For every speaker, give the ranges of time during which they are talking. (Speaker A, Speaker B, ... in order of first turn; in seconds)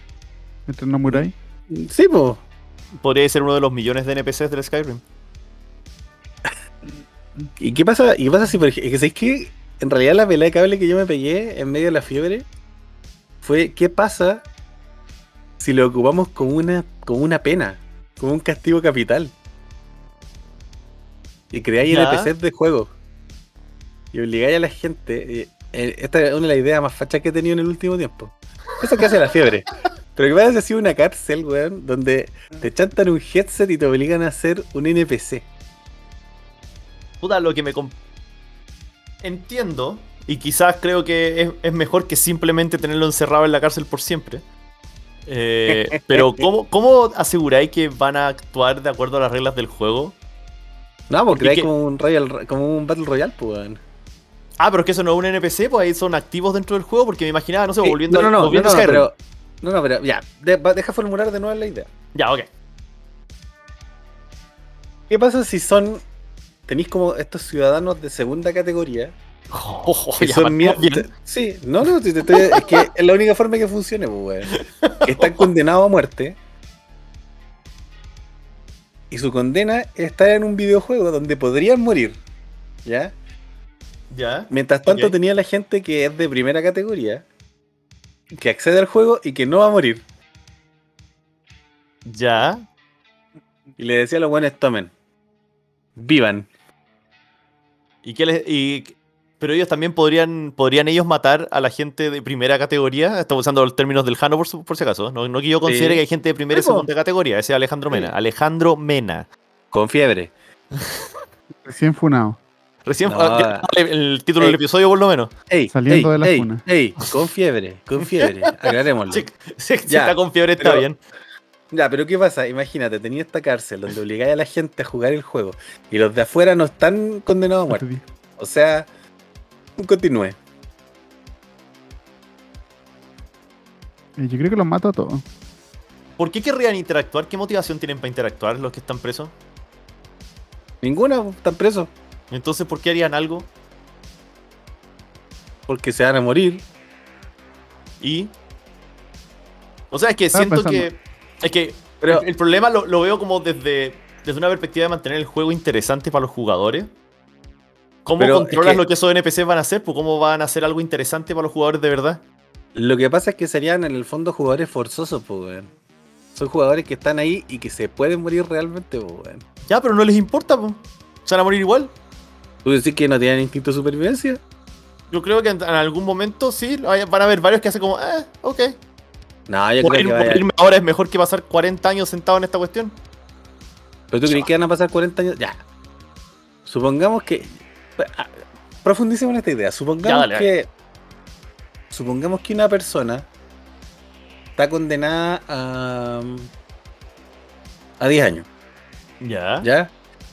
Speaker A: 0.7-1.3, 111.7-112.4, 115.7-116.6, 127.7-128.0, 134.2-135.2, 150.3-150.9
Speaker B: 1.1-2.4, 7.6-12.5, 13.4-14.4, 15.6-19.3, 21.5-22.9, 24.1-35.5, 45.7-46.4, 51.1-53.8, 57.8-61.9, 65.1-66.0, 66.7-69.1, 70.2-76.4, 79.1-82.2, 82.8-83.1, 84.5-87.2, 88.3-90.0, 93.8-94.9, 96.0-96.5, 105.7-106.9, 109.7-110.3, 113.0-113.7, 115.5-119.2, 119.9-120.9, 121.7-127.8, 128.4-128.9, 129.8-130.4, 140.8-141.9, 145.7-146.6, 152.0-152.2, 158.2-158.8, 162.7-165.7, 166.3-169.4, 172.6-174.4, 179.5-180.4, 184.1-185.6, 186.6-190.7, 191.9-193.3, 194.6-196.5, 198.0-198.5, 199.6-199.9
Speaker C: 3.0-5.0, 21.8-22.3, 37.2-37.9, 39.2-44.4, 45.2-50.1, 51.3-51.7, 54.6-59.1, 62.1-62.5, 69.5-71.1, 72.3-72.8, 74.5-75.5, 84.1-85.1, 92.0-92.6, 98.0-109.3, 110.8-111.0, 112.8-115.3, 118.2-118.5, 119.1-121.0, 136.2-139.3, 142.3-143.5, 148.0-148.3, 149.9-156.9, 158.1-162.2, 169.7-171.9, 175.1-178.8, 179.8-182.9, 190.0-190.5, 199.2-199.7